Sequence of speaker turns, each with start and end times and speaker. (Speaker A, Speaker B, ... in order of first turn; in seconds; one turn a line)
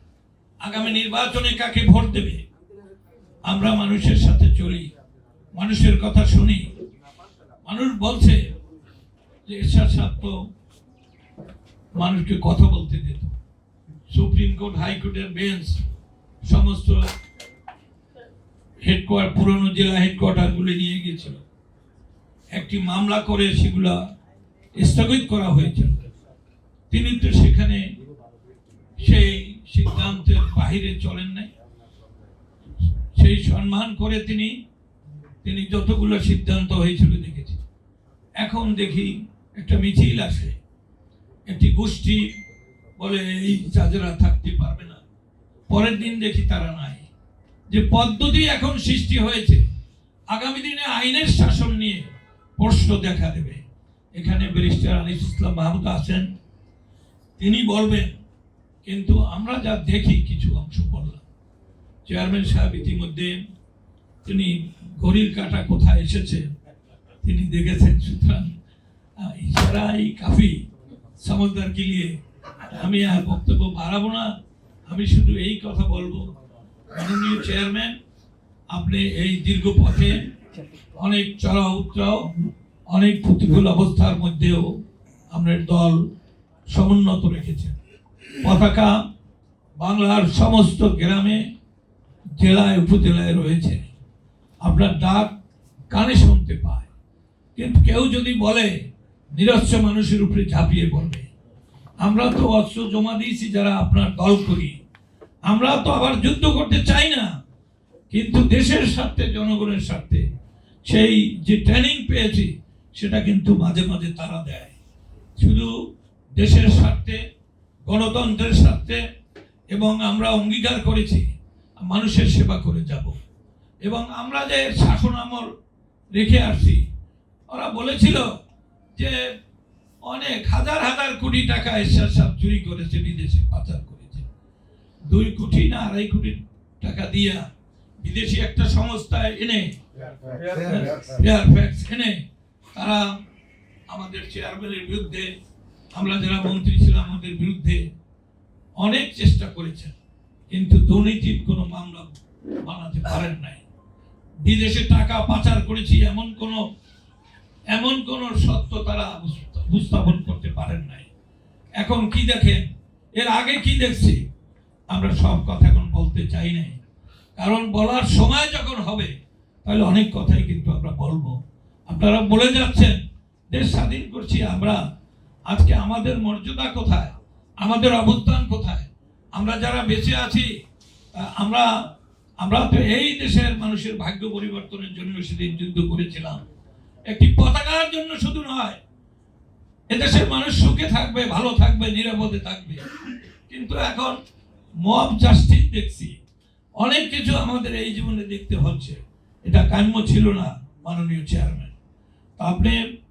Speaker A: 0.6-2.4
Speaker A: 3.5-4.9
Speaker A: 5.5-6.7
Speaker A: 7.7-8.5
Speaker A: 9.5-10.4
Speaker A: 11.9-13.4
Speaker A: 14.1-15.8
Speaker A: 16.5-17.1
Speaker A: 18.8-21.4
Speaker A: 22.5-24.0
Speaker A: 24.8-26.0
Speaker A: 26.9-27.9
Speaker A: 29.0-31.5
Speaker A: 32.8-34.6
Speaker A: 35.4-37.6
Speaker A: 38.4-40.6
Speaker A: 41.5-42.4
Speaker A: 43.0-45.0
Speaker A: 45.7-47.1
Speaker A: 47.7-49.6
Speaker A: 50.3-53.6
Speaker A: 54.2-56.3
Speaker A: 57.4-58.2
Speaker A: 58.9-61.2
Speaker A: 62.1-63.4
Speaker A: 64.2-66.5
Speaker A: 67.2-68.5
Speaker A: 69.2-70.6
Speaker A: 71.2-74.3
Speaker A: 74.9-76.3
Speaker A: 76.9-78.0
Speaker A: 78.7-80.3
Speaker A: 81.0-82.3
Speaker A: 82.9-84.7
Speaker A: 85.3-86.0
Speaker A: 86.7-87.8
Speaker A: 88.4-89.0
Speaker A: 89.8-91.5
Speaker A: 92.4-93.9
Speaker A: 94.6-95.3
Speaker A: 95.9-96.9
Speaker A: 97.6-98.7
Speaker A: 99.3-101.3
Speaker A: 102.0-104.8
Speaker A: 105.5-107.3
Speaker A: 108.1-110.3
Speaker A: 110.9-114.8
Speaker A: 115.4-115.7
Speaker A: 116.4-117.2
Speaker A: 117.9-119.0
Speaker A: 119.7-121.3
Speaker A: 121.8-123.2
Speaker A: 123.8-125.5
Speaker A: 126.1-126.8
Speaker A: 127.5-128.3
Speaker A: 129.0-129.3
Speaker A: 130.1-134.3
Speaker A: 135.1-137.5
Speaker A: 138.0-139.8
Speaker A: 140.6-142.2
Speaker A: 142.7-143.1
Speaker A: 143.9-145.3
Speaker A: 145.9-147.8
Speaker A: 148.8-149.9
Speaker A: 150.5-152.1
Speaker A: 152.6-153.6
Speaker A: 154.4-156.6
Speaker A: 157.7-161.1
Speaker A: 161.8-164.2
Speaker A: 164.9-166.8
Speaker A: 167.4-169.1
Speaker A: 169.7-174.8
Speaker A: 175.5-180.5
Speaker A: 181.1-181.7
Speaker A: 182.4-186.4
Speaker A: 187.1-188.8
Speaker A: 189.9-192.8
Speaker A: 193.5-194.2
Speaker A: 194.8-196.2
Speaker A: 196.8-201.7
Speaker A: 202.4-202.8